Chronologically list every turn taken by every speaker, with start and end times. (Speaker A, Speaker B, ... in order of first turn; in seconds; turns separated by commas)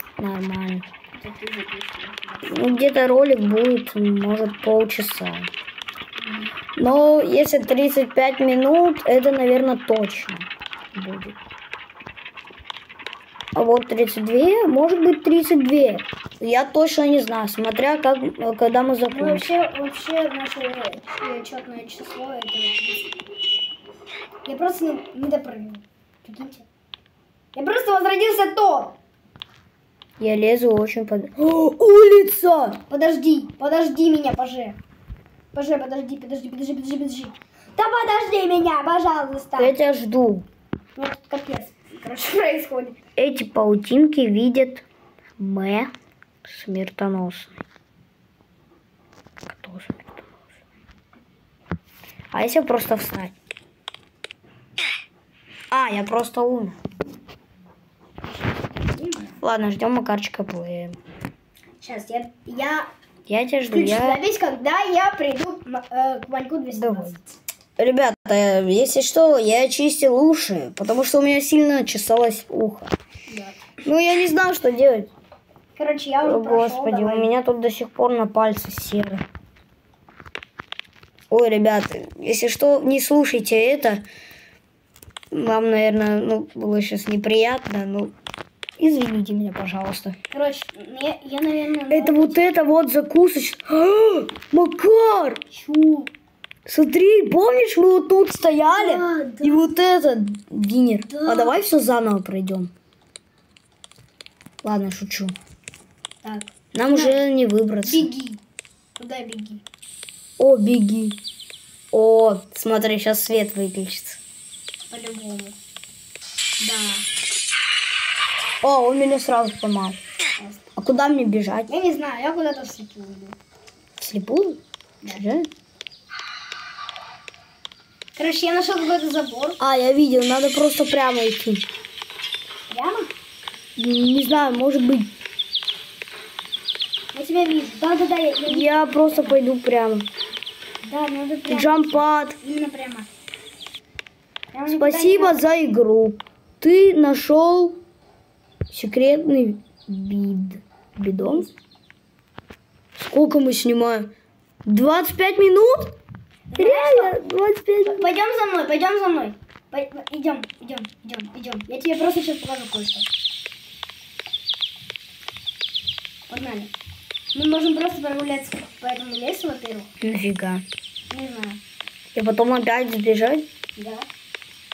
Speaker A: 0.2-0.9, Speaker B: 1.1-2.9, Speaker A: 2.5-5.5, Speaker B: 6.2-6.5, Speaker A: 6.8-11.4, Speaker A: 13.6-19.5, Speaker B: 19.1-23.2, Speaker B: 24.4-26.7, Speaker B: 27.5-29.0, Speaker A: 30.2-32.8, Speaker B: 32.9-34.8, Speaker B: 35.5-39.8, Speaker A: 39.6-40.5, Speaker B: 41.0-43.0, Speaker A: 43.2-44.9, Speaker A: 45.4-45.9, Speaker A: 46.5-47.6, Speaker A: 49.5-50.4, Speaker A: 52.3-53.3, Speaker A: 55.7-56.8, Speaker B: 58.5-59.4, Speaker A: 59.4-61.0, Speaker B: 61.8-62.9, Speaker A: 63.3-64.2, Speaker B: 63.7-67.4, Speaker A: 66.8-67.2, Speaker A: 67.8-72.9, Speaker B: 73.3-73.6, Speaker A: 73.8-75.1, Speaker B: 75.8-77.3, Speaker A: 76.2-79.2, Speaker A: 81.3-84.0, Speaker A: 85.3-88.1, Speaker A: 88.8-90.2, Speaker B: 90.3-92.4, Speaker A: 91.9-95.4, Speaker B: 95.5-96.1, Speaker A: 96.7-102.7, Speaker B: 98.7-99.7, Speaker B: 101.1-101.6, Speaker A: 104.6-105.3, Speaker B: 106.2-107.2, Speaker A: 106.7-108.1, Speaker B: 107.8-108.4, Speaker B: 109.0-109.6, Speaker A: 110.4-111.2, Speaker A: 111.9-114.2, Speaker B: 114.9-115.6, Speaker B: 116.6-117.1, Speaker A: 118.6-120.0, Speaker B: 120.4-120.6, Speaker A: 120.8-121.7, Speaker B: 121.7-123.4, Speaker A: 124.0-125.5, Speaker B: 125.0-125.3, Speaker B: 128.2-129.6, Speaker A: 129.6-131.7, Speaker B: 132.7-133.1, Speaker A: 133.8-135.1, Speaker B: 137.1-139.4, Speaker A: 138.5-140.1, Speaker B: 140.8-143.1, Speaker A: 141.5-142.4, Speaker B: 144.5-145.4, Speaker A: 144.7-147.8, Speaker A: 148.7-151.5, Speaker B: 151.2-151.5, Speaker A: 153.0-154.1, Speaker A: 154.7-156.0, Speaker B: 156.5-157.2, Speaker A: 156.6-158.1, Speaker B: 157.8-163.1, Speaker B: 166.3-166.7, Speaker B: 167.3-169.9, Speaker A: 170.0-170.7, Speaker B: 171.1-171.6, Speaker A: 172.2-173.5, Speaker B: 173.8-174.1